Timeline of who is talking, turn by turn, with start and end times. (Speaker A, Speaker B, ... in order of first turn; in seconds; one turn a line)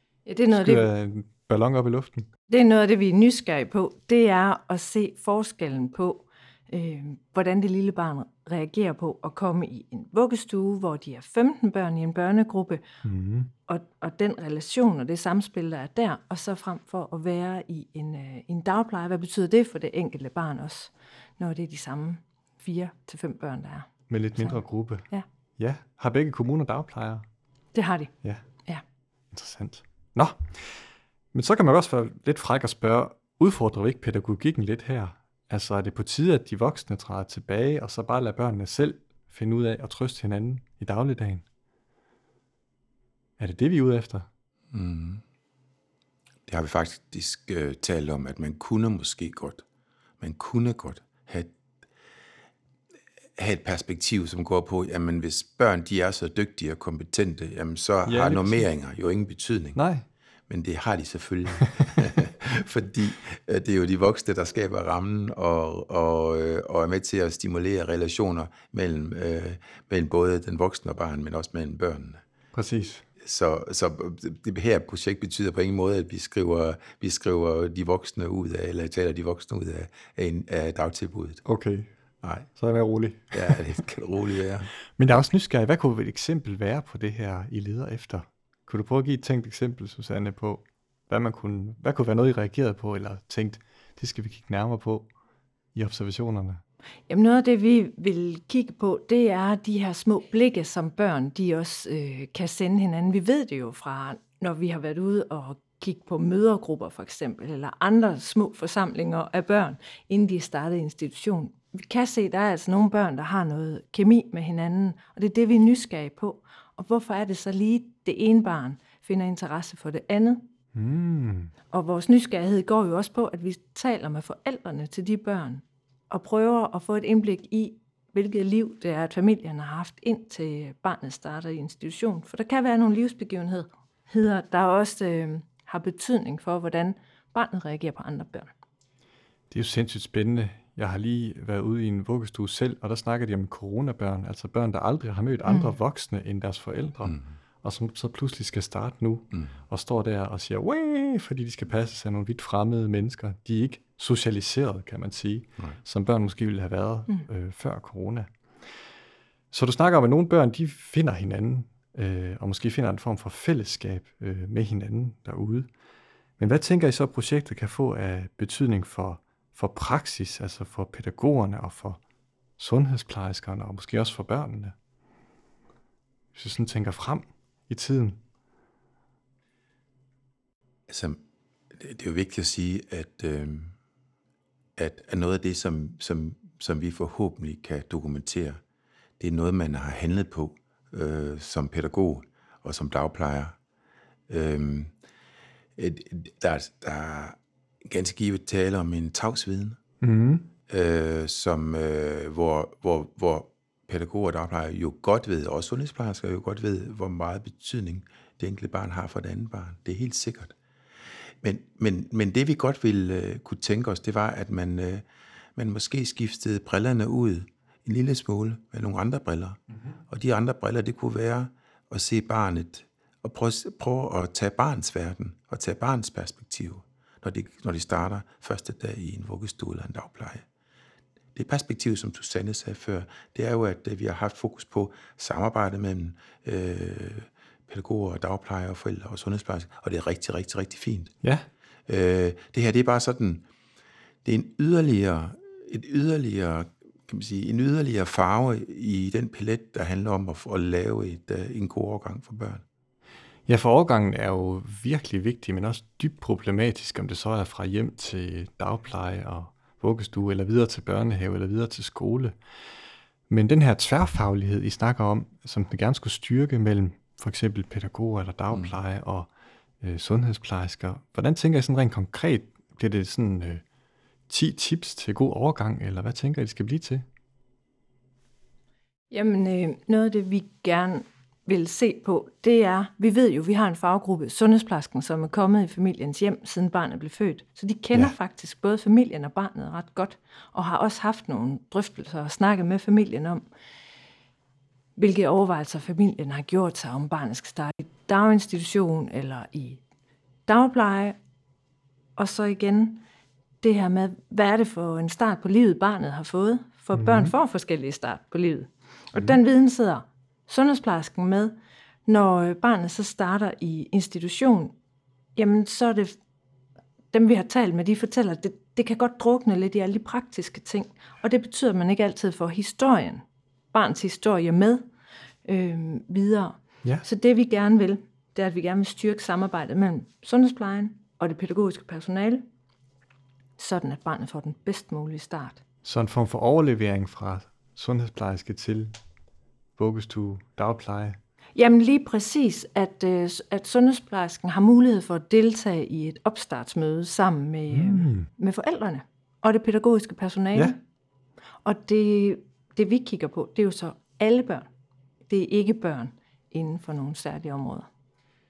Speaker A: 0.2-0.9
Speaker B: 0.5-2.3
Speaker A: 2.5-12.8
Speaker B: 13.0-13.5
Speaker A: 13.7-25.2
Speaker B: 24.1-25.0
Speaker B: 25.6-27.2
Speaker A: 27.7-28.1
Speaker B: 29.3-30.6
Speaker B: 31.3-41.4
Speaker B: 43.4-44.3
Speaker C: 44.7-45.2
Speaker C: 46.5-49.6
Speaker C: 50.2-51.5
Speaker C: 53.4-59.8
Speaker B: 58.0-58.7
Speaker B: 59.7-60.0
Speaker C: 60.5-72.2
Speaker B: 72.5-73.0
Speaker C: 73.2-81.4
Speaker B: 81.4-81.9
Speaker C: 82.2-82.5
Speaker B: 82.5-83.6
Speaker C: 83.3-84.7
Speaker B: 85.0-95.1
Speaker B: 95.7-96.6
Speaker A: 97.1-120.5
Speaker B: 120.7-121.5
Speaker A: 121.7-138.5
Speaker B: 139.5-158.3
Speaker A: 145.4-145.8
Speaker B: 159.5-165.7
Speaker B: 166.4-172.0
Speaker B: 172.6-174.7
Speaker B: 176.3-178.2
Speaker C: 180.9-181.2
Speaker C: 181.8-183.7
Speaker C: 184.8-188.6
Speaker C: 189.2-193.6
Speaker C: 194.3-194.9
Speaker C: 195.8-199.8
Speaker B: 200.0-200.5
Speaker C: 200.7-210.5
Speaker C: 211.4-215.0
Speaker C: 215.6-230.4
Speaker C: 231.3-241.1
Speaker C: 241.9-243.4
Speaker C: 244.2-252.6
Speaker B: 253.5-262.3
Speaker B: 263.3-269.3
Speaker B: 269.8-273.6
Speaker B: 274.3-277.0
Speaker A: 279.1-293.4
Speaker A: 294.9-299.8
Speaker A: 300.4-301.2
Speaker A: 302.1-303.0
Speaker A: 303.6-311.5
Speaker B: 306.9-307.3
Speaker A: 312.1-314.7
Speaker A: 315.3-316.1
Speaker A: 317.1-324.8
Speaker A: 325.4-332.4
Speaker A: 333.6-335.6
Speaker B: 335.8-338.9
Speaker B: 339.8-341.2
Speaker A: 341.6-350.8
Speaker B: 347.7-348.3
Speaker A: 351.6-354.7
Speaker A: 355.3-357.9